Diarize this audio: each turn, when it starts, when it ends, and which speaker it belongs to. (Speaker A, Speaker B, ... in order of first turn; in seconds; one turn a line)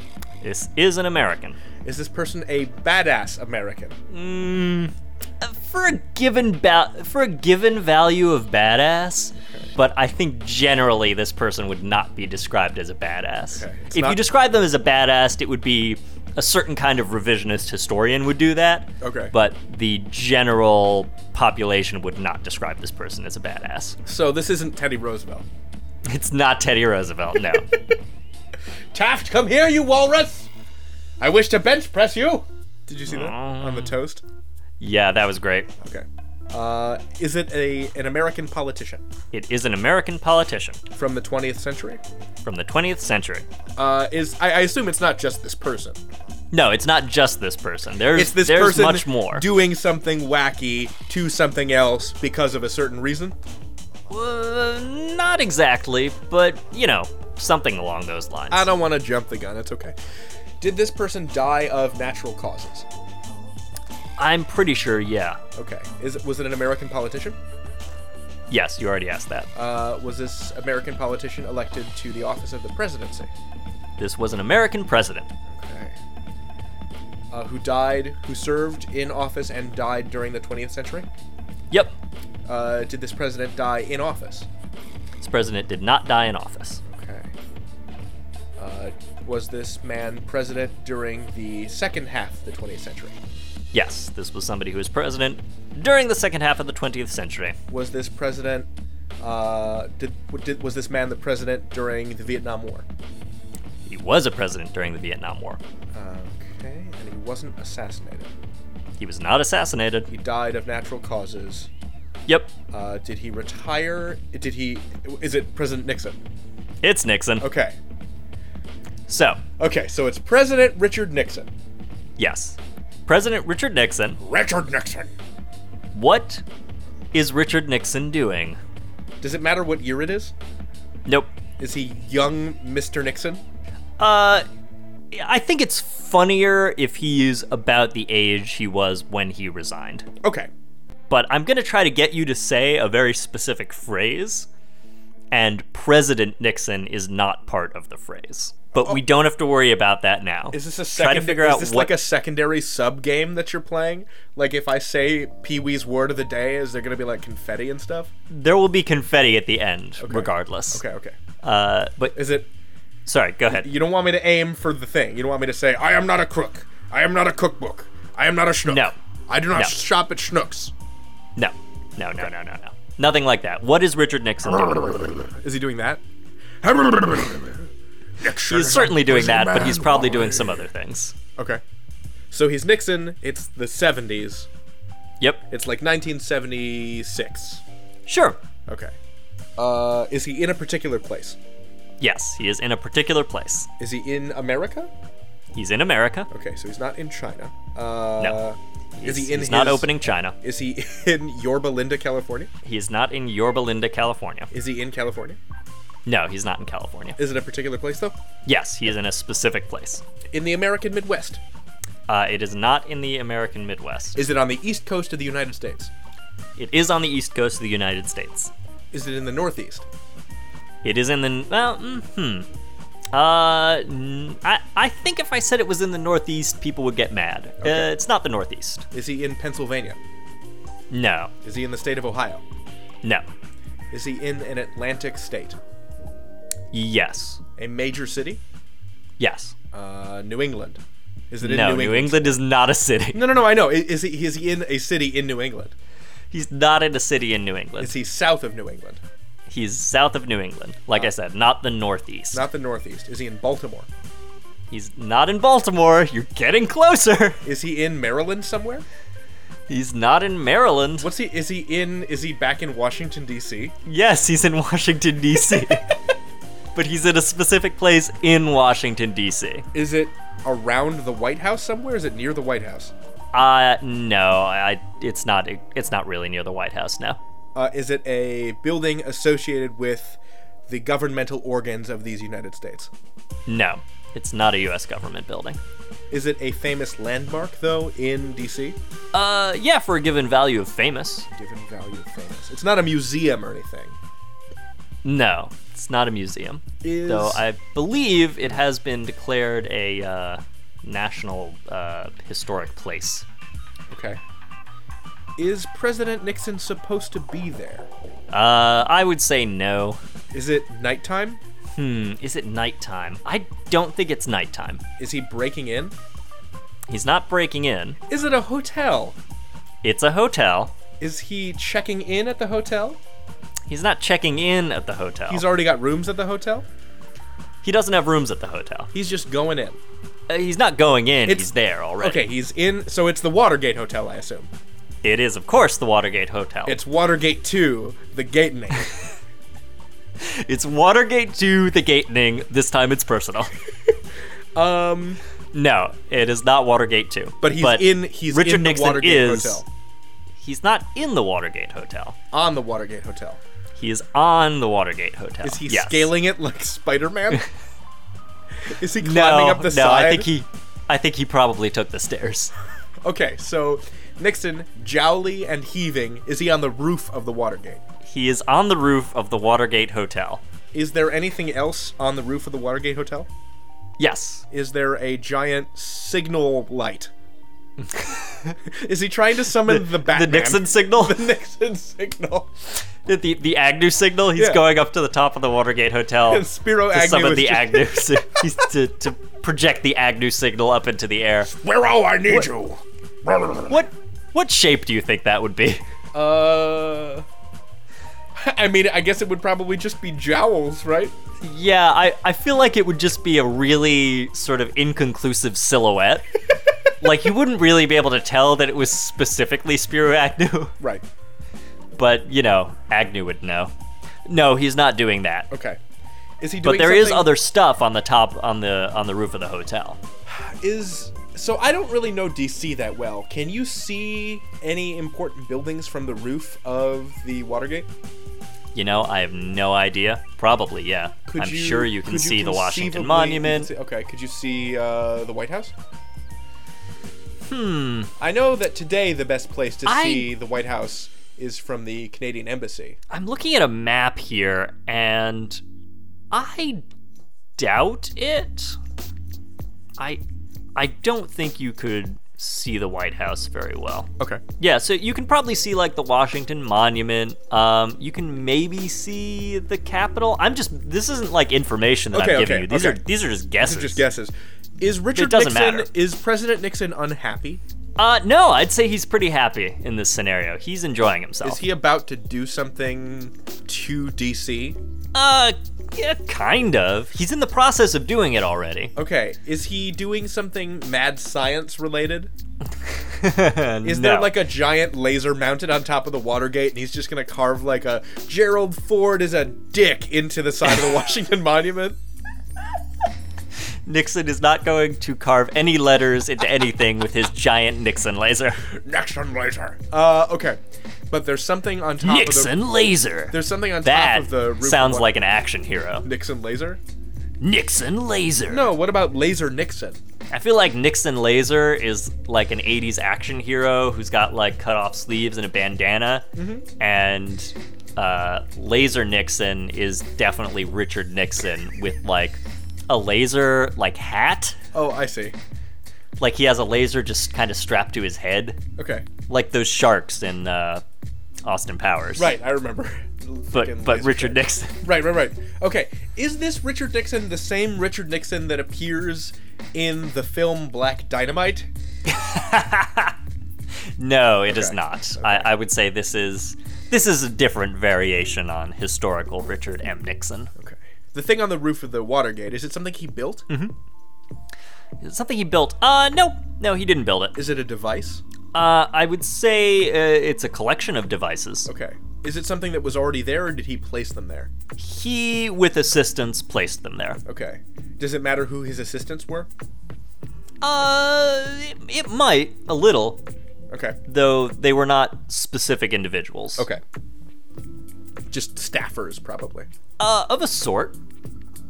Speaker A: 0.4-1.6
Speaker B: 1.8-4.0
Speaker A: 4.1-24.0
Speaker B: 13.5-14.2
Speaker B: 19.0-19.3
Speaker B: 24.0-25.4
Speaker A: 26.0-27.7
Speaker B: 28.9-30.5
Speaker B: 31.2-34.2
Speaker A: 33.1-34.0
Speaker A: 34.8-35.7
Speaker B: 35.8-39.0
Speaker A: 39.3-40.8
Speaker B: 40.9-42.0
Speaker A: 42.4-43.5
Speaker B: 43.8-46.0
Speaker A: 46.5-49.4
Speaker B: 48.1-53.4
Speaker A: 54.1-58.7
Speaker B: 58.5-59.9
Speaker B: 60.6-62.9
Speaker A: 64.2-65.4
Speaker B: 65.5-67.4
Speaker A: 68.5-69.5
Speaker B: 69.5-73.3
Speaker A: 74.0-75.3
Speaker B: 75.5-76.0
Speaker B: 77.3-81.1
Speaker B: 82.5-84.5
Speaker A: 85.2-86.8
Speaker B: 86.9-87.3
Speaker B: 88.6-93.2
Speaker A: 93.7-97.6
Speaker B: 97.7-98.7
Speaker B: 99.2-102.8
Speaker A: 103.9-105.6
Speaker B: 105.9-108.3
Speaker A: 109.0-110.1
Speaker B: 110.1-111.7
Speaker B: 112.7-116.2
Speaker A: 116.8-117.5
Speaker B: 117.4-117.8
Speaker A: 119.1-119.4
Speaker B: 119.6-121.5
Speaker A: 122.2-124.2
Speaker B: 124.2-125.1
Speaker A: 125.9-126.4
Speaker A: 127.1-128.6
Speaker B: 129.2-130.3
Speaker A: 131.1-131.3
Speaker B: 131.6-133.4
Speaker A: 134.0-134.4
Speaker A: 135.1-140.1
Speaker B: 140.2-140.5
Speaker A: 141.1-144.5
Speaker A: 145.3-152.0
Speaker B: 148.7-149.0
Speaker B: 150.5-158.1
Speaker A: 158.3-160.8
Speaker B: 160.0-161.2
Speaker A: 161.4-162.2
Speaker B: 162.1-162.5
Speaker A: 163.1-163.7
Speaker B: 163.5-170.7
Speaker A: 168.7-168.9
Speaker A: 171.4-175.1
Speaker B: 174.5-176.0
Speaker B: 176.6-177.7
Speaker B: 178.2-180.7
Speaker A: 178.4-181.1
Speaker B: 181.3-181.6
Speaker B: 182.3-184.5
Speaker B: 185.5-187.6
Speaker A: 188.1-188.4
Speaker B: 188.7-188.9
Speaker B: 189.6-191.4
Speaker A: 192.0-193.7
Speaker B: 193.8-194.9
Speaker A: 195.5-196.3
Speaker B: 196.3-202.5
Speaker A: 199.0-200.3
Speaker A: 202.6-204.5
Speaker B: 204.5-205.4
Speaker A: 206.1-207.2
Speaker B: 207.2-208.2
Speaker A: 208.4-210.0
Speaker B: 210.3-211.4
Speaker A: 212.1-214.2
Speaker B: 214.2-215.9
Speaker A: 216.6-218.5
Speaker B: 218.9-219.8
Speaker A: 220.8-222.5
Speaker A: 223.1-228.8
Speaker B: 227.6-227.9
Speaker B: 228.9-230.0
Speaker A: 230.9-231.3
Speaker B: 231.4-232.4
Speaker B: 233.9-235.6
Speaker A: 236.7-237.4
Speaker B: 237.6-238.4
Speaker A: 239.2-239.5
Speaker B: 239.7-242.4
Speaker A: 241.4-243.2
Speaker B: 243.1-245.7
Speaker A: 246.3-247.9
Speaker B: 247.8-249.0
Speaker A: 249.5-252.4
Speaker B: 252.3-253.9
Speaker A: 254.7-257.4
Speaker B: 257.4-258.8
Speaker A: 259.7-261.1
Speaker B: 261.0-263.7
Speaker A: 263.8-265.9
Speaker A: 266.7-269.7
Speaker B: 269.7-272.9
Speaker A: 273.3-277.2
Speaker B: 277.5-282.9
Speaker A: 283.5-285.6
Speaker B: 286.1-288.8
Speaker A: 289.1-291.3
Speaker B: 291.4-293.9
Speaker A: 295.0-303.2
Speaker B: 296.8-297.4
Speaker B: 303.9-304.2
Speaker B: 305.4-307.9
Speaker A: 308.3-310.0
Speaker B: 310.3-311.4
Speaker A: 311.8-314.8
Speaker B: 315.0-315.9
Speaker A: 316.9-318.0
Speaker B: 318.1-319.2
Speaker A: 319.8-320.7
Speaker B: 321.0-323.0
Speaker A: 323.7-325.4
Speaker B: 325.3-326.7
Speaker A: 327.6-328.9
Speaker B: 328.9-329.8
Speaker A: 330.3-332.2
Speaker B: 331.2-334.5
Speaker A: 335.0-336.8
Speaker B: 336.6-338.9
Speaker A: 340.2-343.5
Speaker B: 344.5-345.2
Speaker A: 345.5-349.6
Speaker B: 347.4-349.6
Speaker A: 350.4-352.2
Speaker B: 352.3-353.4
Speaker A: 353.8-356.1
Speaker B: 355.4-357.4
Speaker B: 358.6-360.3
Speaker A: 359.0-362.5
Speaker B: 363.0-367.8
Speaker A: 368.0-370.4
Speaker B: 370.7-373.3
Speaker A: 374.0-374.4
Speaker B: 374.5-377.1
Speaker A: 377.8-378.6
Speaker B: 378.6-382.5
Speaker A: 379.6-381.2
Speaker A: 383.0-391.5
Speaker B: 384.3-384.6
Speaker B: 386.3-388.1
Speaker B: 391.5-393.8
Speaker A: 393.7-395.8
Speaker B: 396.1-397.2
Speaker B: 398.4-401.1
Speaker A: 401.4-406.3
Speaker A: 407.0-410.7
Speaker B: 410.8-411.0
Speaker A: 412.0-413.7
Speaker A: 414.2-415.5
Speaker B: 415.5-415.8
Speaker B: 416.4-417.3
Speaker A: 416.6-420.0
Speaker B: 420.2-427.9
Speaker A: 428.7-433.7
Speaker B: 431.3-435.7
Speaker A: 437.4-438.1
Speaker B: 438.2-443.0
Speaker A: 439.8-440.3
Speaker A: 443.1-445.6
Speaker A: 446.3-446.8
Speaker A: 447.6-448.8
Speaker A: 450.7-464.0
Speaker B: 462.1-463.0
Speaker B: 463.6-467.6
Speaker A: 465.1-465.9
Speaker A: 468.0-471.6
Speaker B: 471.4-474.8
Speaker A: 475.1-478.9
Speaker B: 478.9-482.3
Speaker A: 482.9-484.3
Speaker B: 483.8-492.0
Speaker A: 493.9-498.7
Speaker B: 498.6-500.6
Speaker B: 501.1-502.5
Speaker A: 502.0-506.1
Speaker B: 503.3-505.1
Speaker B: 506.0-506.8
Speaker A: 507.4-508.7
Speaker B: 508.5-510.0
Speaker A: 510.3-516.3
Speaker B: 516.4-516.6
Speaker A: 516.8-524.6
Speaker B: 524.7-525.4
Speaker A: 526.2-528.6
Speaker B: 528.8-529.1
Speaker A: 529.3-530.8
Speaker A: 531.4-532.3
Speaker B: 532.1-541.7
Speaker A: 533.5-534.9
Speaker A: 542.0-543.1
Speaker A: 544.0-550.5
Speaker B: 544.5-545.5
Speaker B: 550.5-553.5
Speaker A: 555.0-557.4
Speaker B: 557.3-558.2
Speaker A: 558.5-561.7
Speaker B: 561.7-564.5
Speaker A: 564.8-567.2
Speaker B: 567.2-569.5
Speaker A: 570.6-573.2
Speaker B: 573.7-574.0
Speaker A: 574.1-576.7
Speaker B: 578.3-579.7
Speaker A: 580.0-581.0